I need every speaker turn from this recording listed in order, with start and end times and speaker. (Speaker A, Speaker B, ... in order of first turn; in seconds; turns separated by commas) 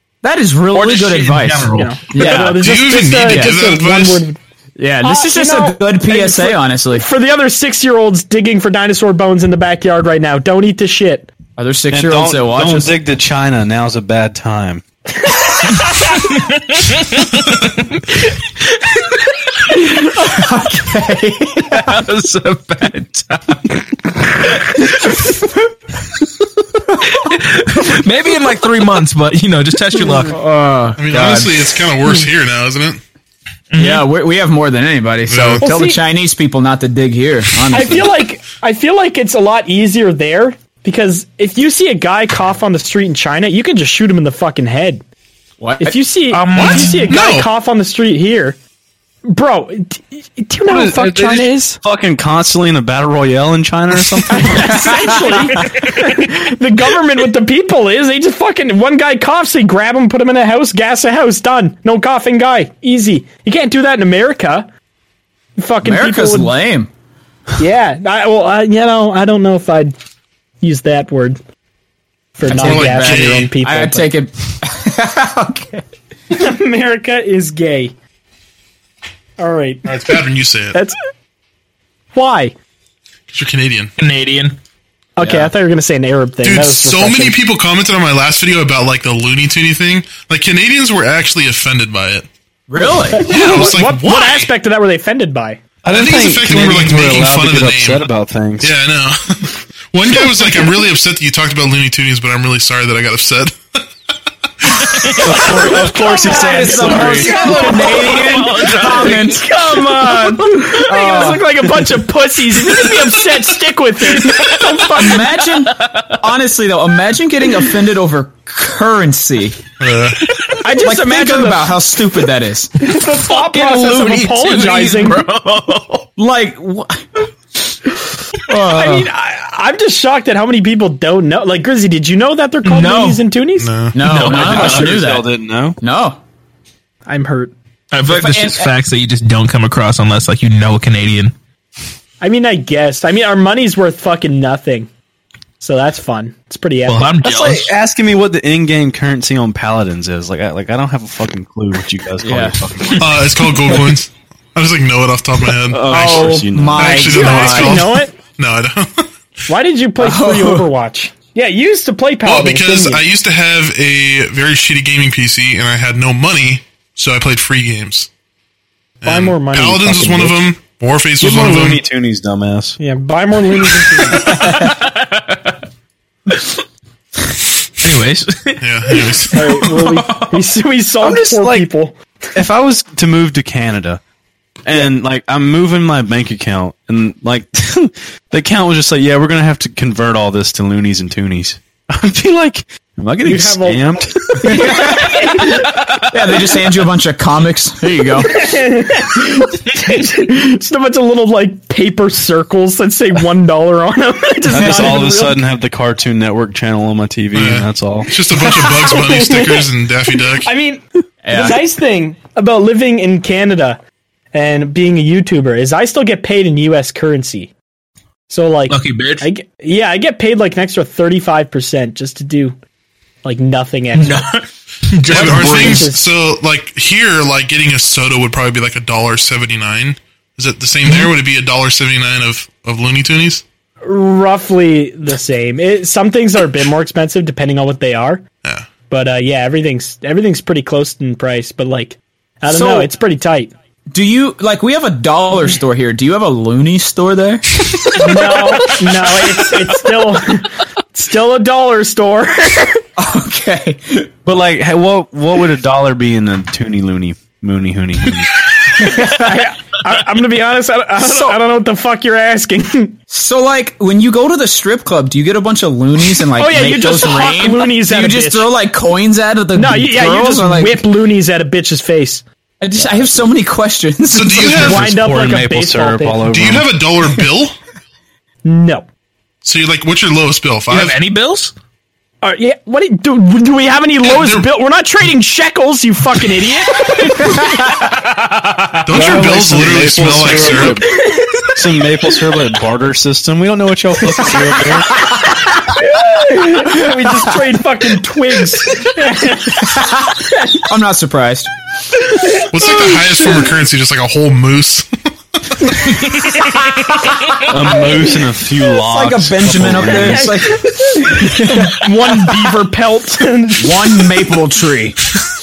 Speaker A: 0.2-3.6, Speaker B: 0.7-2.4, Speaker C: 1.7-4.4, Speaker D: 2.3-4.2, Speaker A: 4.8-7.0, Speaker C: 5.0-11.3, Speaker A: 11.6-12.9, Speaker E: 11.9-14.8, Speaker C: 15.4-16.1, Speaker B: 16.3-18.2, Speaker A: 19.8-22.0, Speaker B: 21.7-25.4, Speaker B: 26.9-30.4, Speaker A: 30.3-31.5, Speaker D: 31.0-33.0, Speaker B: 33.7-34.1, Speaker A: 33.8-38.1, Speaker D: 35.3-35.6, Speaker C: 35.6-36.0, Speaker C: 37.7-45.0, Speaker A: 45.6-46.0, Speaker C: 45.8-48.6, Speaker B: 46.3-47.2, Speaker A: 46.5-46.9, Speaker D: 46.6-47.5, Speaker C: 49.2-51.8, Speaker E: 50.7-54.9, Speaker C: 54.3-64.7, Speaker C: 65.6-66.5, Speaker A: 65.8-66.9, Speaker C: 67.6-69.9, Speaker C: 70.6-71.4, Speaker C: 72.4-74.1, Speaker A: 72.4-75.8, Speaker D: 72.5-73.5, Speaker C: 76.3-77.9, Speaker C: 79.4-80.2, Speaker D: 79.8-80.8, Speaker C: 82.1-82.5, Speaker D: 83.3-83.9, Speaker B: 84.0-84.6, Speaker C: 85.2-87.4, Speaker A: 85.2-85.5, Speaker D: 86.4-92.3, Speaker A: 92.7-93.2, Speaker C: 93.1-95.6, Speaker D: 93.1-94.5, Speaker E: 95.8-98.7, Speaker D: 95.9-98.1, Speaker D: 98.6-103.8, Speaker D: 104.6-105.2, Speaker B: 104.8-105.7, Speaker E: 105.2-107.4, Speaker C: 105.4-115.4, Speaker A: 106.0-109.5, Speaker B: 106.8-109.4, Speaker A: 110.1-111.5, Speaker B: 112.7-113.0, Speaker B: 114.2-114.9, Speaker A: 114.4-119.6, Speaker B: 115.5-116.2, Speaker D: 119.8-120.3, Speaker C: 120.6-121.8, Speaker A: 120.6-122.7, Speaker C: 122.8-125.2, Speaker B: 123.1-126.1, Speaker A: 126.2-127.3, Speaker A: 128.5-129.0, Speaker B: 128.5-129.0, Speaker C: 128.5-133.7, Speaker B: 132.6-133.2, Speaker D: 133.6-134.0, Speaker A: 133.9-135.3, Speaker B: 134.0-134.9, Speaker E: 134.1-135.8, Speaker A: 135.8-136.2, Speaker C: 137.1-137.5, Speaker B: 137.9-141.3, Speaker A: 138.1-138.7, Speaker C: 142.2-144.9, Speaker C: 145.6-147.1, Speaker B: 146.8-147.7, Speaker E: 147.2-153.4, Speaker A: 152.2-152.6, Speaker D: 152.9-159.1, Speaker E: 155.7-157.1, Speaker A: 155.8-157.9, Speaker C: 157.0-158.1, Speaker C: 159.5-163.0, Speaker A: 160.0-160.7, Speaker D: 162.2-168.1, Speaker D: 169.0-171.8, Speaker C: 169.0-170.5, Speaker E: 171.2-172.8, Speaker C: 172.8-174.7, Speaker B: 174.1-175.5, Speaker B: 177.8-180.4, Speaker D: 178.6-179.4, Speaker C: 179.3-181.9, Speaker E: 181.0-181.7, Speaker E: 182.3-184.0, Speaker E: 184.6-194.7, Speaker C: 193.2-195.7, Speaker A: 194.4-198.4, Speaker C: 198.2-205.4, Speaker E: 204.5-208.2, Speaker A: 204.6-204.9, Speaker D: 207.3-210.5, Speaker C: 208.4-213.8, Speaker A: 211.2-211.6, Speaker C: 214.3-217.5, Speaker C: 218.3-222.6, Speaker B: 218.7-219.3, Speaker C: 223.2-224.3, Speaker B: 223.9-225.9, Speaker D: 225.1-233.4, Speaker C: 225.1-226.1, Speaker C: 233.8-238.2, Speaker C: 238.9-243.5, Speaker A: 242.5-242.9, Speaker A: 243.9-248.7, Speaker C: 247.9-252.8, Speaker A: 253.0-254.1, Speaker E: 254.2-258.3, Speaker A: 258.8-259.4, Speaker C: 258.8-263.0, Speaker A: 261.0-261.4, Speaker A: 263.1-270.9, Speaker C: 266.3-268.5, Speaker C: 269.5-272.2, Speaker A: 272.6-274.8, Speaker D: 274.1-274.8, Speaker E: 274.4-276.7, Speaker C: 274.5-276.3, Speaker D: 276.3-277.5, Speaker C: 278.4-278.9, Speaker D: 279.4-281.0, Speaker B: 280.7-281.5, Speaker C: 282.2-287.5, Speaker D: 284.0-284.5, Speaker B: 288.2-288.8, Speaker D: 288.8-290.9, Speaker E: 288.9-295.0, Speaker C: 290.9-291.4, Speaker C: 295.0-300.6, Speaker A: 299.6-301.5, Speaker C: 302.1-303.5, Speaker D: 302.5-304.9, Speaker D: 305.5-305.8, Speaker B: 305.9-307.4, Speaker E: 307.4-310.4, Speaker A: 308.6-311.8, Speaker C: 309.7-314.2, Speaker A: 313.6-315.0